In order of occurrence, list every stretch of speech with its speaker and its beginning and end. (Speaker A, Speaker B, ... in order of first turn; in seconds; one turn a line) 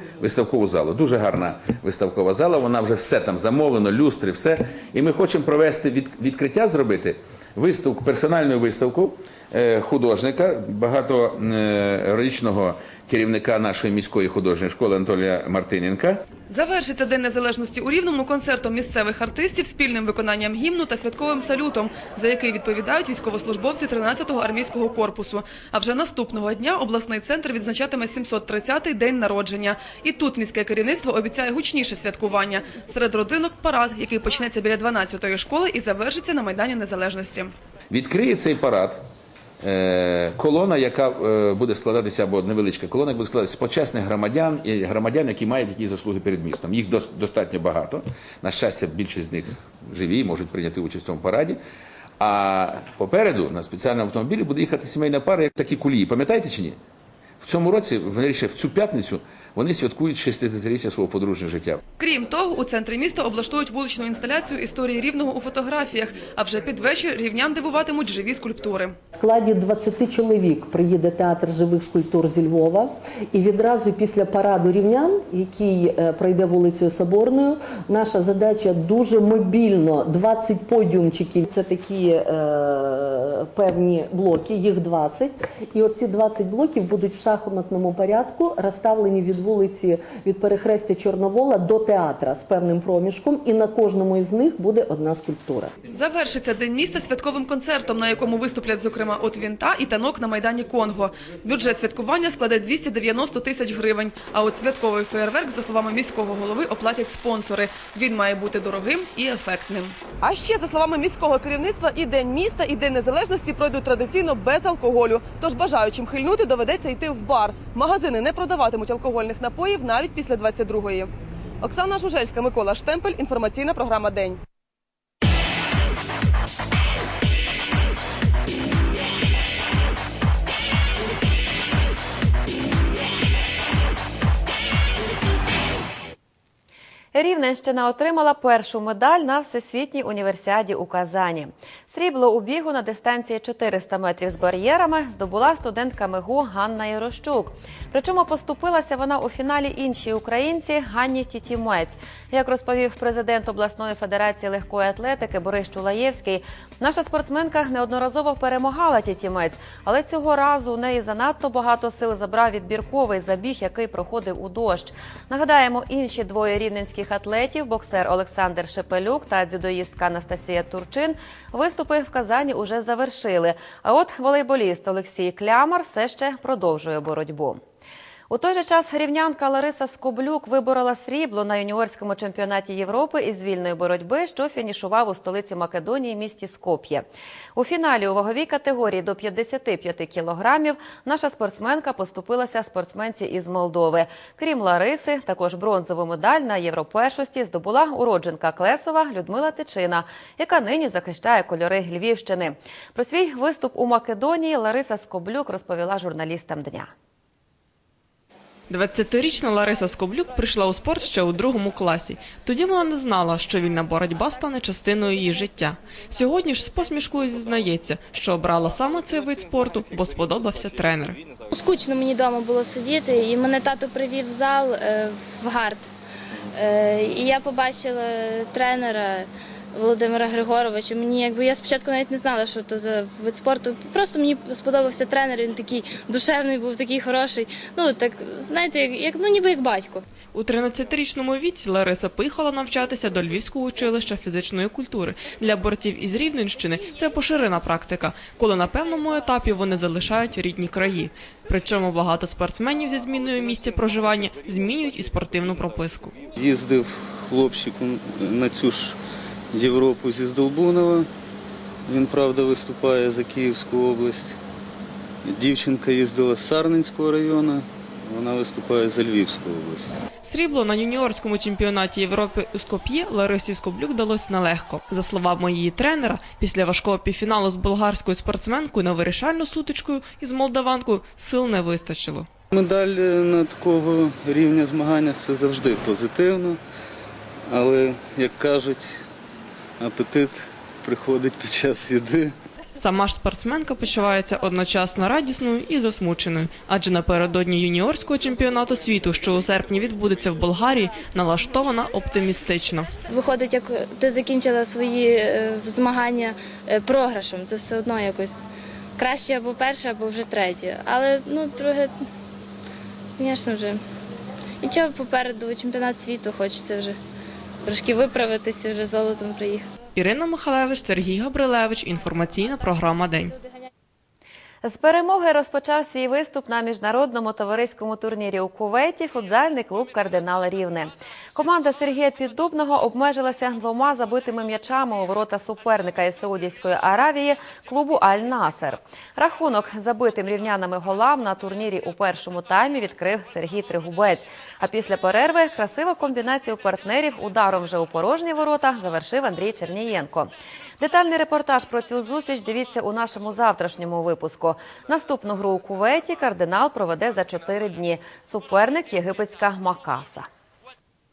Speaker A: 0.2-16.1
Speaker B: 16.5-37.5
Speaker A: 37.9-39.0
Speaker A: 39.6-51.5
Speaker A: 52.2-56.8
Speaker A: 57.4-61.8
Speaker B: 62.0-68.9
Speaker C: 69.1-95.7
Speaker B: 95.9-121.1
Speaker B: 121.6-124.4
Speaker D: 137.1-177.6
Speaker D: 178.3-206.9
Speaker E: 208.7-221.2
Speaker F: 221.5-225.9
Speaker F: 226.5-240.0
Speaker E: 240.3-256.1
Speaker G: 256.4-259.0
Speaker G: 259.5-261.1
Speaker G: 261.9-264.4
Speaker G: 265.2-269.9
Speaker E: 270.2-282.3
Speaker G: 282.5-286.6
Speaker G: 287.5-288.9
Speaker G: 289.8-292.3
Speaker E: 292.8-302.9
Speaker F: 303.1-308.4
Speaker F: 309.0-312.0
Speaker F: 313.2-313.8
Speaker F: 314.6-317.0
Speaker F: 317.6-319.6
Speaker E: 319.9-323.4
Speaker D: 324.6-360.3